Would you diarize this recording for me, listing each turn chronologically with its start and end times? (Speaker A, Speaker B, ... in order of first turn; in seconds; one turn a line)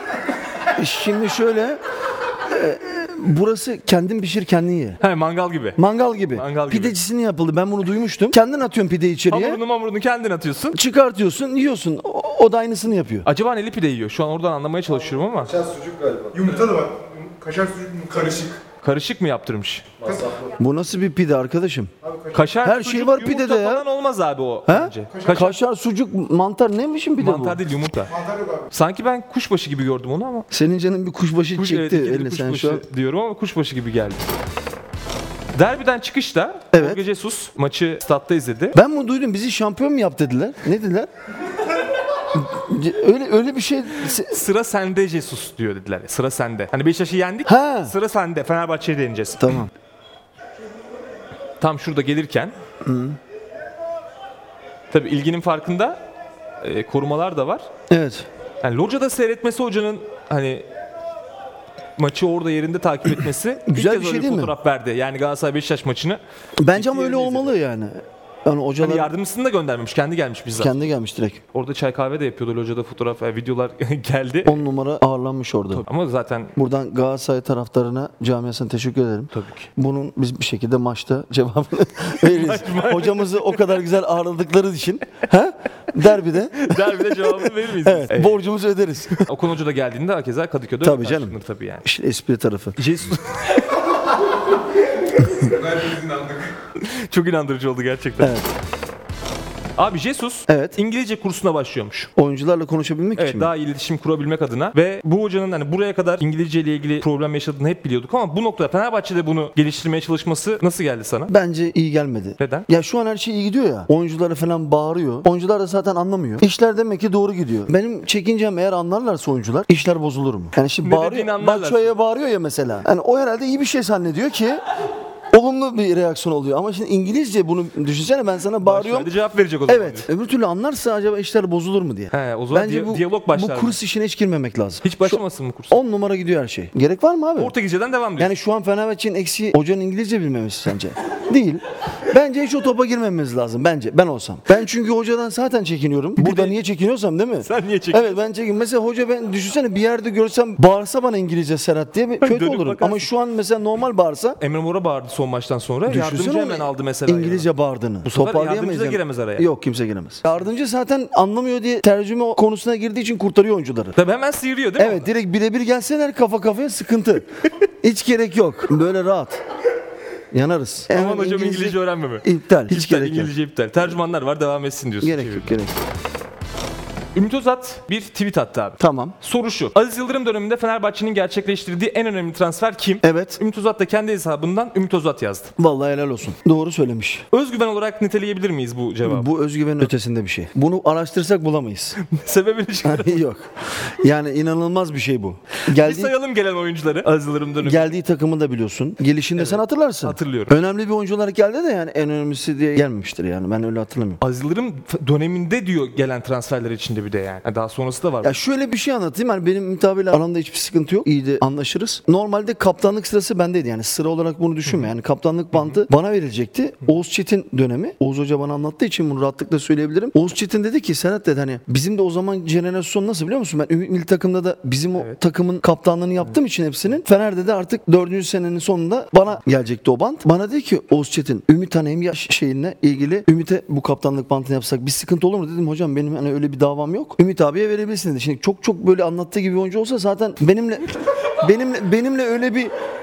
Speaker A: 0.8-1.8
Speaker A: 2.5-5.0
Speaker B: 5.0-5.8
Speaker A: 5.8-9.6
Speaker B: 6.3-7.0
Speaker B: 9.3-10.8
Speaker A: 10.7-13.3
Speaker B: 13.2-15.6
Speaker C: 15.5-18.6
Speaker B: 18.8-19.9
Speaker C: 20.0-20.4
Speaker A: 20.6-21.9
Speaker C: 22.0-22.4
Speaker B: 22.3-25.6
Speaker A: 22.6-23.9
Speaker A: 24.7-27.6
Speaker C: 25.1-25.5
Speaker B: 27.2-28.1
Speaker C: 28.1-28.7
Speaker B: 28.7-30.5
Speaker A: 30.5-32.8
Speaker B: 31.6-34.3
Speaker B: 35.5-38.8
Speaker A: 36.7-37.0
Speaker A: 38.8-41.1
Speaker A: 42.3-44.4
Speaker B: 44.0-49.6
Speaker A: 47.5-47.9
Speaker A: 49.4-49.7
Speaker B: 51.6-52.5
Speaker A: 52.8-53.2
Speaker B: 54.9-56.0
Speaker B: 56.6-57.7
Speaker A: 57.9-58.3
Speaker B: 58.6-60.7
Speaker B: 62.0-66.2
Speaker A: 63.6-64.5
Speaker A: 66.6-69.1
Speaker B: 66.7-67.5
Speaker B: 68.8-70.8
Speaker A: 70.6-71.4
Speaker B: 71.5-74.6
Speaker A: 74.5-75.8
Speaker B: 75.7-76.5
Speaker A: 76.6-89.3
Speaker B: 79.3-79.7
Speaker B: 82.2-83.8
Speaker B: 86.5-88.5
Speaker B: 89.2-91.8
Speaker A: 90.8-92.8
Speaker B: 92.8-93.7
Speaker C: 95.6-96.3
Speaker B: 96.8-98.4
Speaker A: 98.2-98.6
Speaker B: 99.8-102.1
Speaker A: 100.5-100.8
Speaker A: 102.2-103.5
Speaker B: 103.2-111.3
Speaker A: 111.3-124.6
Speaker B: 112.4-112.7
Speaker B: 120.8-121.9
Speaker A: 125.3-129.1
Speaker B: 128.6-130.1
Speaker A: 129.7-137.5
Speaker B: 132.1-133.8
Speaker B: 134.8-135.8
Speaker B: 137.4-138.3
Speaker A: 138.2-154.4
Speaker B: 146.2-146.6
Speaker B: 147.4-148.2
Speaker B: 152.2-153.1
Speaker B: 154.4-157.5
Speaker A: 155.9-164.0
Speaker B: 158.1-159.5
Speaker B: 164.0-165.1
Speaker A: 164.8-167.3
Speaker A: 167.8-169.4
Speaker A: 170.3-173.3
Speaker B: 170.9-175.6
Speaker A: 175.0-175.8
Speaker B: 177.1-185.5
Speaker A: 178.8-179.2
Speaker A: 183.0-183.4
Speaker A: 185.6-187.3
Speaker B: 187.3-189.3
Speaker A: 189.0-192.0
Speaker B: 192.0-193.2
Speaker A: 192.8-196.1
Speaker B: 195.7-197.9
Speaker A: 197.6-204.2
Speaker B: 199.4-200.6
Speaker B: 204.2-208.4
Speaker A: 208.2-242.7
Speaker B: 214.7-214.9
Speaker B: 215.6-215.8